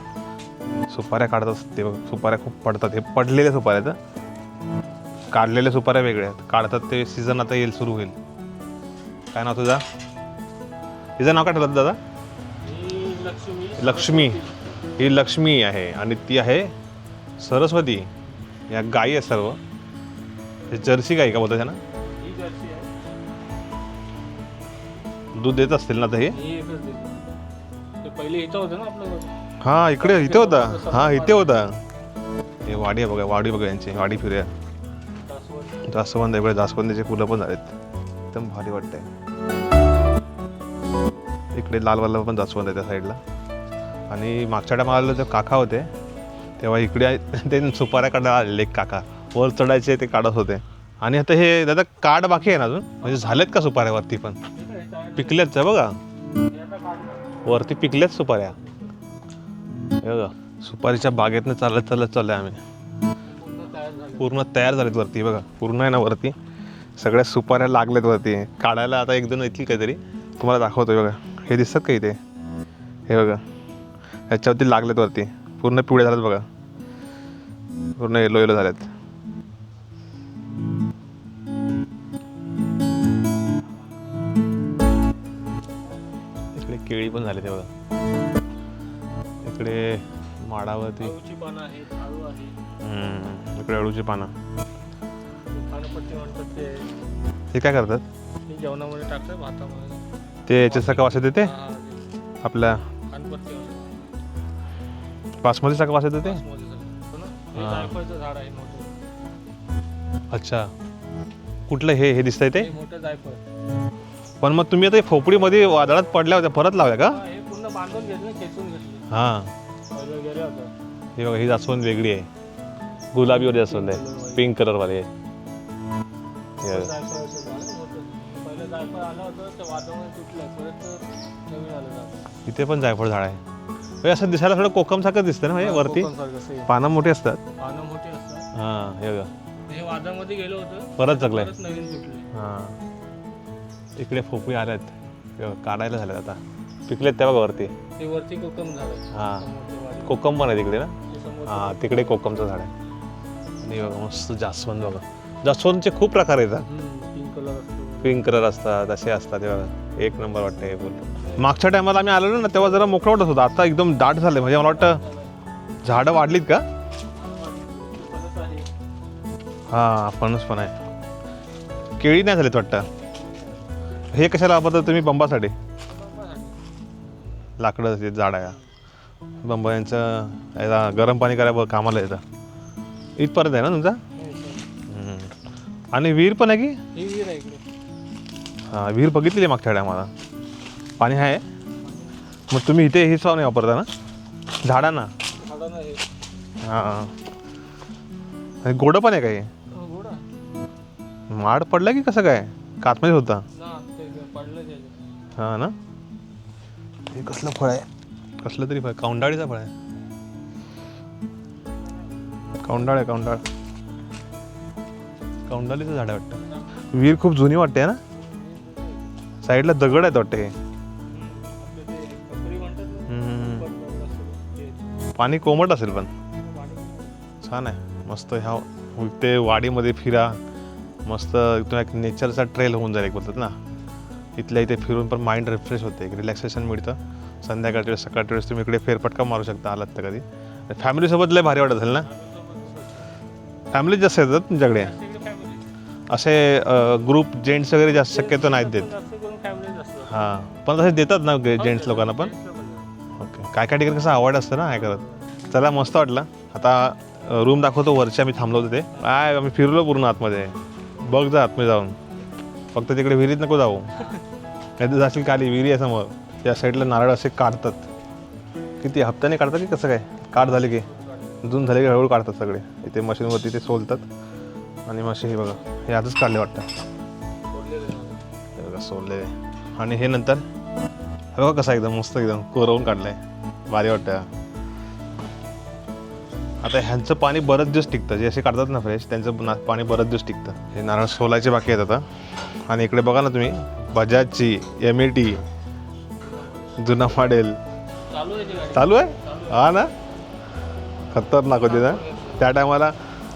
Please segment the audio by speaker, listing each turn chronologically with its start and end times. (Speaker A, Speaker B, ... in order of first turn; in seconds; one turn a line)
Speaker A: 0.9-4.0
Speaker A: 5.3-8.2
Speaker A: 9.3-9.8
Speaker A: 11.2-12.0
Speaker B: 12.6-14.6
Speaker A: 13.8-14.4
Speaker A: 15.0-16.7
Speaker A: 17.4-18.1
Speaker A: 18.7-19.6
Speaker A: 20.7-21.8
Speaker B: 22.1-22.9
Speaker A: 25.4-26.4
Speaker B: 26.3-27.3
Speaker B: 28.0-29.3
Speaker A: 29.6-31.7
Speaker B: 30.0-31.6
Speaker A: 32.6-34.5
Speaker B: 35.2-35.9
Speaker A: 35.9-37.8
Speaker A: 38.3-39.1
Speaker A: 41.5-43.2
Speaker A: 44.1-45.9
Speaker A: 46.6-54.4
Speaker B: 54.5-55.5
Speaker A: 55.2-56.0
Speaker B: 56.5-57.3
Speaker A: 57.5-58.5
Speaker A: 60.0-62.6
Speaker B: 63.3-64.4
Speaker A: 64.2-66.3
Speaker A: 67.0-72.2
Speaker A: 73.1-73.4
Speaker A: 74.3-76.5
Speaker A: 78.0-78.9
Speaker A: 86.5-87.7
Speaker A: 89.5-91.1
Speaker B: 91.0-92.6
Speaker A: 92.8-94.3
Speaker B: 95.5-96.9
Speaker A: 97.5-98.0
Speaker B: 98.5-100.0
Speaker A: 100.5-101.5
Speaker B: 100.5-102.1
Speaker A: 102.4-102.8
Speaker B: 103.1-103.9
Speaker A: 105.4-106.4
Speaker B: 106.2-108.9
Speaker A: 107.5-107.9
Speaker A: 110.3-110.7
Speaker A: 111.7-112.7
Speaker B: 112.5-113.4
Speaker A: 114.4-117.2
Speaker B: 117.0-119.0
Speaker A: 119.1-119.5
Speaker B: 119.9-120.7
Speaker A: 121.2-122.3
Speaker A: 123.1-125.1
Speaker B: 123.2-124.4
Speaker B: 126.6-132.1
Speaker A: 126.6-126.9
Speaker A: 132.5-133.4
Speaker A: 134.0-136.1
Speaker B: 135.6-136.7
Speaker A: 136.7-137.4
Speaker B: 137.6-138.5
Speaker A: 138.5-139.3
Speaker B: 139.7-142.3
Speaker A: 141.0-141.5
Speaker A: 142.3-142.8
Speaker A: 144.0-147.7
Speaker B: 148.0-150.2
Speaker A: 149.1-149.5
Speaker A: 150.1-150.9
Speaker B: 151.1-151.9
Speaker A: 151.5-152.7
Speaker A: 153.6-156.7
Speaker B: 156.7-158.2
Speaker A: 158.0-165.0
Speaker B: 161.2-161.4
Speaker B: 164.8-165.2
Speaker A: 165.8-166.7
Speaker B: 167.2-168.7
Speaker A: 169.7-170.7
Speaker A: 172.0-172.9
Speaker A: 174.1-175.5
Speaker B: 175.9-176.6
Speaker A: 177.6-178.6
Speaker A: 179.4-182.2
Speaker A: 183.2-184.0
Speaker B: 184.2-184.7
Speaker A: 184.9-185.3
Speaker A: 185.9-186.8
Speaker B: 186.9-187.6
Speaker A: 188.7-190.1
Speaker A: 191.0-191.4
Speaker A: 192.5-193.9
Speaker A: 194.6-195.1
Speaker B: 195.4-196.0
Speaker A: 196.7-197.1
Speaker A: 198.6-199.5
Speaker B: 199.7-200.2
Speaker A: 201.3-203.4
Speaker B: 203.5-205.0
Speaker A: 205.4-205.8
Speaker A: 207.1-207.9
Speaker A: 208.4-209.7
Speaker A: 212.6-213.4
Speaker A: 215.5-216.4
Speaker A: 216.9-218.0
Speaker B: 218.2-219.1
Speaker A: 219.4-220.5
Speaker B: 221.1-224.8
Speaker A: 223.1-223.7
Speaker A: 225.2-226.1
Speaker B: 226.4-227.2
Speaker A: 227.4-230.4
Speaker A: 231.1-233.5
Speaker A: 234.4-242.1
Speaker B: 242.0-243.1
Speaker A: 243.7-244.9
Speaker B: 244.8-245.7
Speaker A: 246.1-248.9
Speaker B: 247.9-250.1
Speaker A: 250.1-252.3
Speaker B: 251.6-252.9
Speaker A: 253.2-260.5
Speaker B: 254.7-255.2
Speaker A: 261.1-262.0
Speaker A: 262.7-263.9
Speaker A: 264.8-267.9
Speaker A: 268.8-270.9
Speaker B: 270.9-271.4
Speaker A: 271.4-274.1
Speaker A: 274.9-276.7
Speaker B: 277.5-278.2
Speaker A: 278.6-280.4
Speaker A: 281.4-284.3
Speaker A: 286.6-292.0
Speaker A: 292.7-295.4
Speaker B: 296.2-296.8
Speaker A: 296.8-297.6
Speaker B: 298.1-299.8
Speaker A: 298.7-299.9
Speaker A: 301.1-302.9
Speaker B: 301.6-302.5